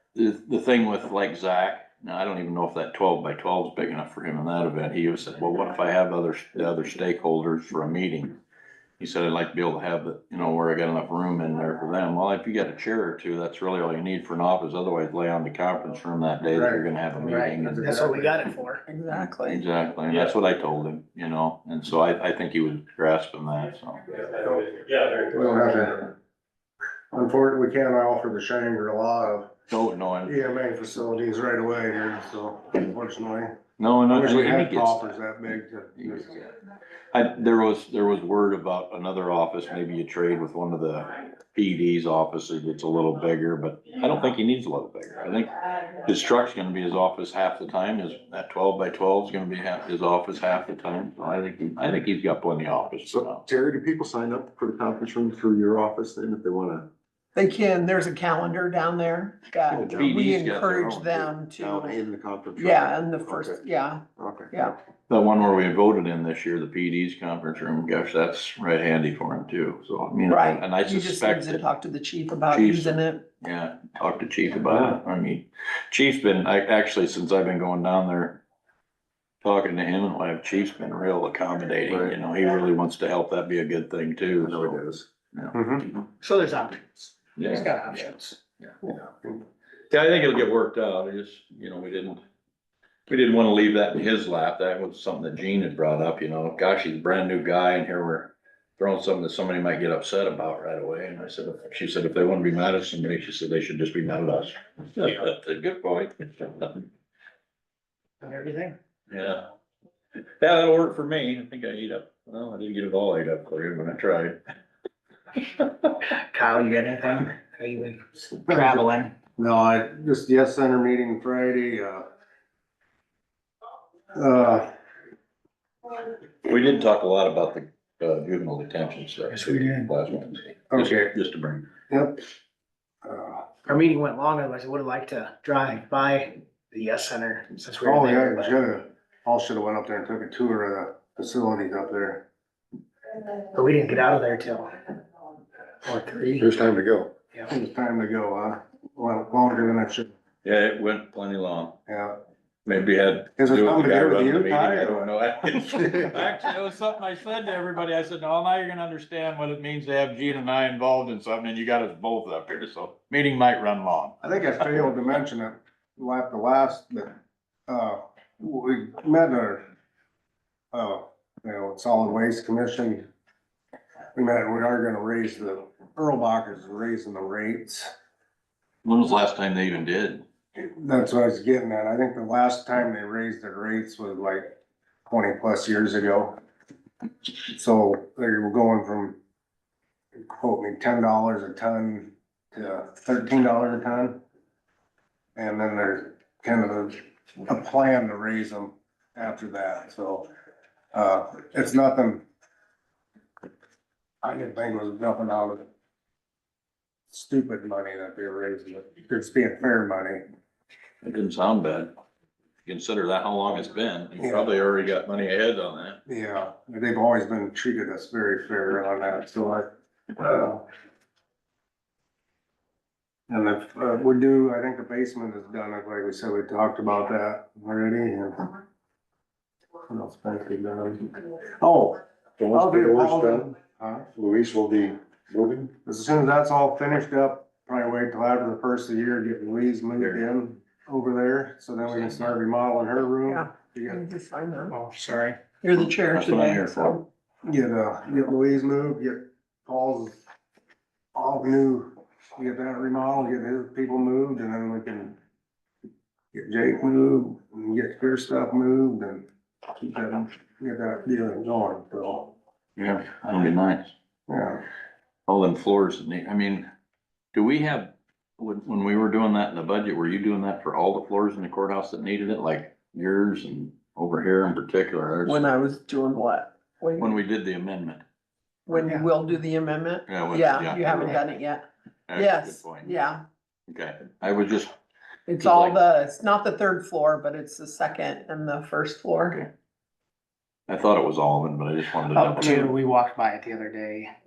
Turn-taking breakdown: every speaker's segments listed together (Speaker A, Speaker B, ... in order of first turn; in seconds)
Speaker A: 0.1-8.3, 9.0-18.0, 19.4-24.1, 29.7-30.4, 33.8-35.2, 36.0-36.5, 37.1-53.4, 59.8-60.8, 65.1-71.6, 72.5-78.4, 79.4-84.8, 87.4-88.1, 89.9-92.2, 93.1-106.8, 109.1-109.5, 110.4-114.4, 126.4-131.7, 150.4-151.8, 152.7-164.1, 178.8-180.2, 211.0-211.9, 212.7-216.0, 241.9-242.4, 245.8-247.0, 262.8-263.9, 265.3-266.7, 267.3-275.5, 277.0-278.0, 280.1-281.2, 282.1-282.9, 283.7-284.7, 285.4-285.8, 290.7-292.8
Speaker B: 16.5-18.4, 25.1-26.1, 27.1-29.5, 30.2-33.5, 34.1-36.3, 85.5-85.8, 88.8-89.4, 118.5-118.9, 119.4-122.1, 124.1-124.7, 130.7-131.1, 131.9-132.2, 133.0-133.5, 137.8-142.2, 147.5-150.1, 151.9-152.2, 153.4-156.2, 164.2-167.1, 167.7-169.7, 170.7-173.0, 174.2-177.9, 180.6-184.5, 185.1-186.3, 187.5-189.2, 190.2-194.2, 195.3-200.3, 200.9-202.2, 204.2-205.7, 207.1-210.2, 214.2-214.5, 216.1-220.7, 223.3-228.5, 229.9-234.1, 235.8-244.0, 247.4-250.2, 251.2-255.2, 256.3-262.3, 264.3-264.6
Speaker C: 17.3-18.8, 86.2-88.4, 108.2-108.8, 116.0-119.1, 129.3-129.9, 133.7-138.6, 143.3-145.0, 145.8-146.5, 244.7-245.4, 278.7-279.1, 292.1-294.1
Speaker D: 18.9-19.6, 57.3-62.0, 62.6-64.8, 70.3-73.2, 243.3-244.8, 245.6-247.0, 275.2-277.1, 278.7-281.6, 282.1-283.2, 285.3-289.4
Speaker E: 53.1-56.9, 59.7-63.6, 64.2-64.5, 84.4-85.1, 146.4-147.1, 232.4-233.5, 234.2-235.7